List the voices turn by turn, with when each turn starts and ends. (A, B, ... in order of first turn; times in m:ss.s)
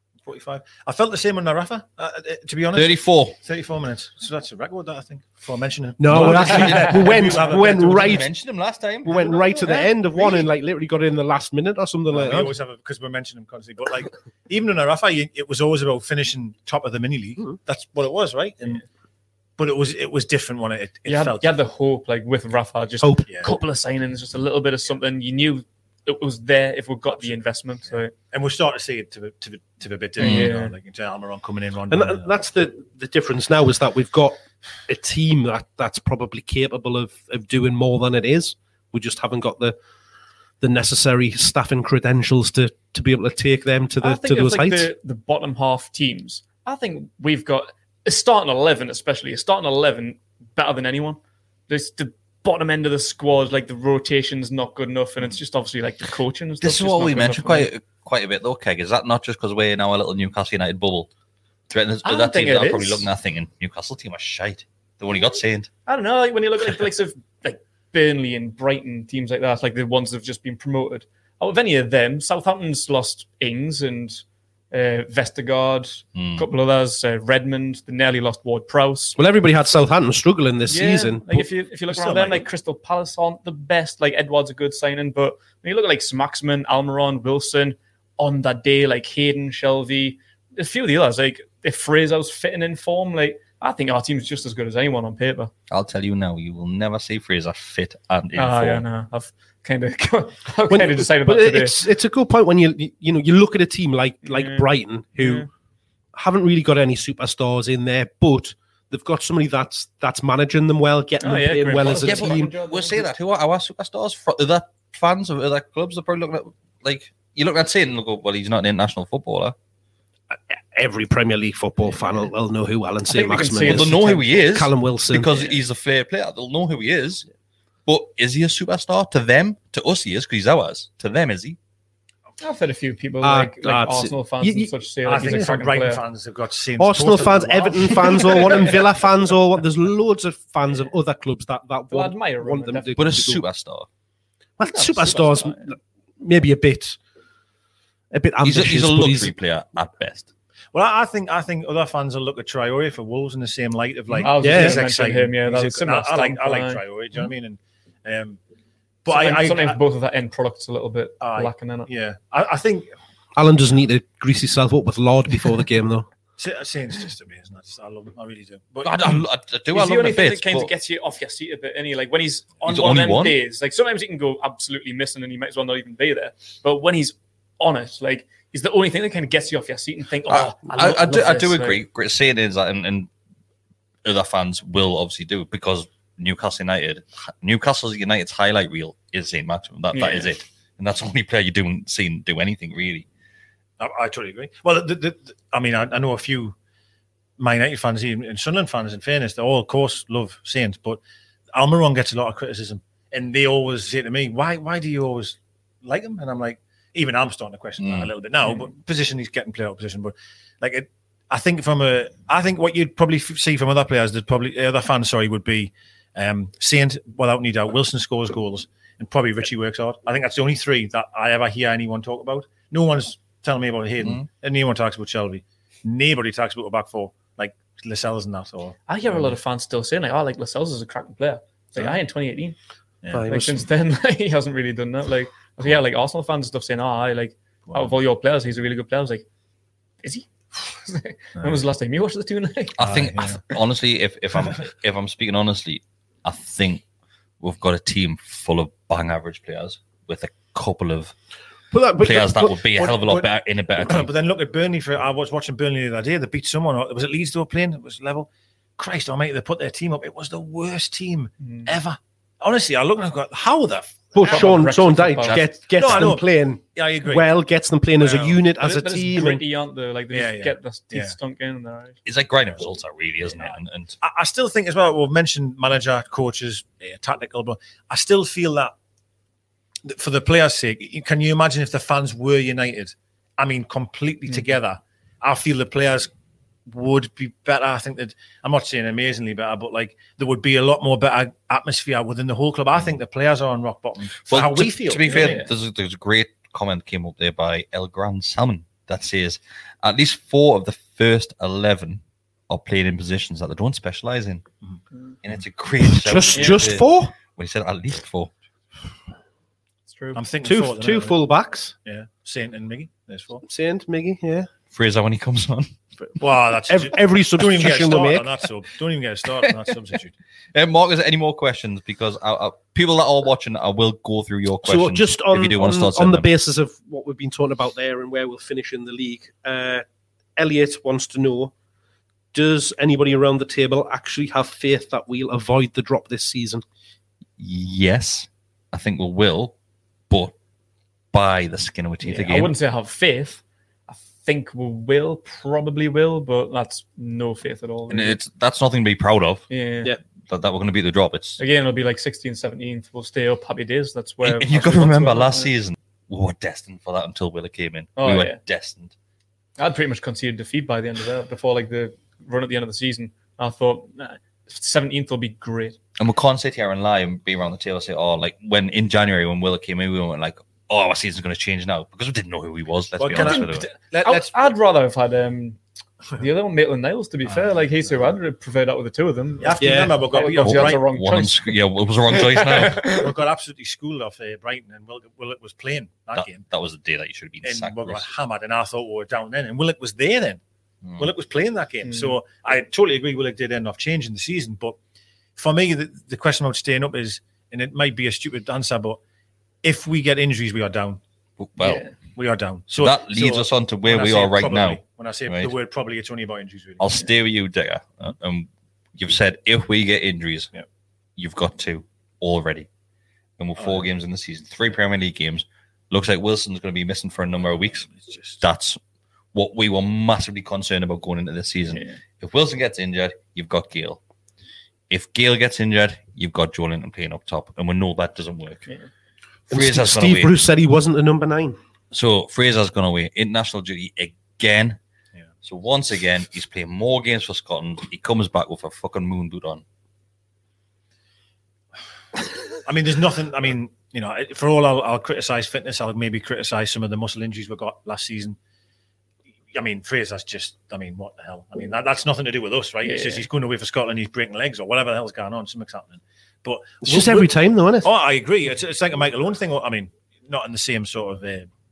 0:00.3-0:08.2 A
0:02.7-0:03.4 B
0:06.0-0:08.3 C
0:06.1-0:09.3 B
0:09.0-0:12.5 C
0:09.1-0:10.4 A
0:12.1-0:18.8 A
0:19.6-0:21.5 A
0:21.1-0:28.1 D
0:23.0-0:23.3 C
0:28.3-0:32.3 A
0:30.2-0:30.5 B
0:30.2-0:30.7 D
0:31.9-0:39.8 C
0:40.6-0:44.9 C
0:44.0-0:57.7 D
0:56.6-1:01.1 B
1:01.7-1:05.7 B
1:02.0-1:03.1 D
1:05.9-1:19.2 D
1:16.2-1:16.5 B
1:19.2-1:21.5 C
1:20.7-1:35.5 D
1:21.9-1:22.5 A
1:35.7-1:38.8 B
1:38.4-1:41.8 D
1:40.7-1:45.5 C
1:44.2-1:44.7 D
1:45.2-1:45.5 D
1:46.1-1:52.5 C
1:51.2-1:53.1 D
1:51.8-1:59.6 B
2:00.3-2:05.5 C
2:03.1-2:04.3 D
2:03.6-2:07.3 B
2:07.9-2:11.6 B
2:12.4-2:16.0 D
2:13.2-2:15.6 C
2:15.0-2:18.8 A
2:16.8-2:23.4 C
2:18.2-2:18.6 D
2:21.9-2:23.1 D
2:23.0-2:23.9 B
2:24.6-2:27.0 C
2:24.7-2:25.6 D
2:28.1-2:29.3 C
2:28.4-2:30.3 B
2:30.7-2:38.4 A
2:34.2-2:36.8 D
2:34.4-2:34.8 C
2:39.0-2:39.8 A
2:39.1-2:41.9 D
2:41.2-2:42.9 A
2:43.4-2:46.1 C
2:46.4-2:49.2 A
2:48.8-2:50.7 B
2:49.7-3:01.8 D
2:52.7-2:53.4 B
3:00.3-3:03.1 B
3:04.0-3:13.1 B
3:09.9-3:10.3 D
3:13.8-3:16.6 A
3:17.4-3:21.0 A
3:21.5-3:49.3 A
3:27.8-3:28.1 B
3:48.9-3:52.6 D
3:53.0-3:53.3 A
3:53.1-3:53.7 C
3:53.3-3:59.2 D
3:57.7-3:57.9 A
4:00.0-4:02.8 D
4:02.8-4:06.8 B
4:02.8-4:03.4 A
4:07.4-4:11.1 B
4:11.7-4:12.6 C
4:12.0-4:14.1 B
4:12.8-4:13.3 A
4:13.8-4:24.7 A
4:21.4-4:21.7 D
4:24.2-4:29.4 C
4:24.2-4:25.5 D
4:25.2-4:25.5 B
4:25.8-4:27.3 A
4:28.0-4:28.4 A
4:28.6-4:32.0 D
4:30.1-4:31.2 A
4:32.0-4:34.0 B
4:34.0-4:38.7 A
4:39.8-4:46.1 A
4:46.7-4:55.4 A
4:54.3-5:04.4 B
4:55.1-4:55.5 D
5:05.2-5:08.3 B
5:05.8-5:07.2 C
5:06.4-5:06.6 D
5:09.9-5:10.2 D
5:10.1-5:11.2 A
5:10.4-5:11.8 C
5:11.8-5:13.4 A
5:13.4-5:14.5 C
5:14.7-5:15.7 B
5:16.2-5:20.1 A
5:16.7-5:18.3 C
5:20.5-5:26.3 B
5:24.6-5:29.8 C
5:30.4-5:31.5 C
5:32.3-5:36.6 C
5:37.4-5:39.6 B
5:41.1-5:42.5 B
5:42.0-5:48.2 D
5:47.9-5:49.5 B
5:49.5-5:49.9 D
5:50.3-5:51.4 B
5:51.4-5:55.5 D
5:54.2-5:58.9 B
5:58.0-5:58.4 D
5:59.6-6:05.8 D
6:06.0-6:13.7 B
6:13.0-6:14.5 A
6:13.1-6:15.6 D
6:16.2-6:21.4 D
6:19.4-6:20.8 A
6:19.6-6:20.0 C
6:20.4-6:22.8 B
6:22.1-6:23.1 D
6:22.9-6:26.4 A
6:26.2-6:28.1 B
6:27.4-6:30.4 A
6:30.8-6:31.1 B
6:31.0-6:34.8 A
6:31.8-6:32.2 D
6:35.4-6:39.0 A
6:39.6-6:41.0 A
6:41.4-6:41.9 B
6:41.6-6:41.9 D
6:42.2-6:46.9 A
6:42.7-6:45.5 B
6:46.8-6:50.5 B
6:51.2-6:52.7 B
6:53.4-6:57.9 B
6:57.9-6:58.4 A
6:58.4-6:58.8 B
6:59.3-7:04.0 B
7:01.7-7:02.0 D
7:04.9-7:08.7 B
7:09.5-7:11.6 C
7:09.5-7:10.4 B
7:11.9-7:14.8 B
7:15.4-7:19.6 B
7:22.6-7:28.4 A
7:29.5-7:37.3 A
7:32.8-7:33.3 D
7:36.8-7:37.9 C
7:37.8-7:41.5 A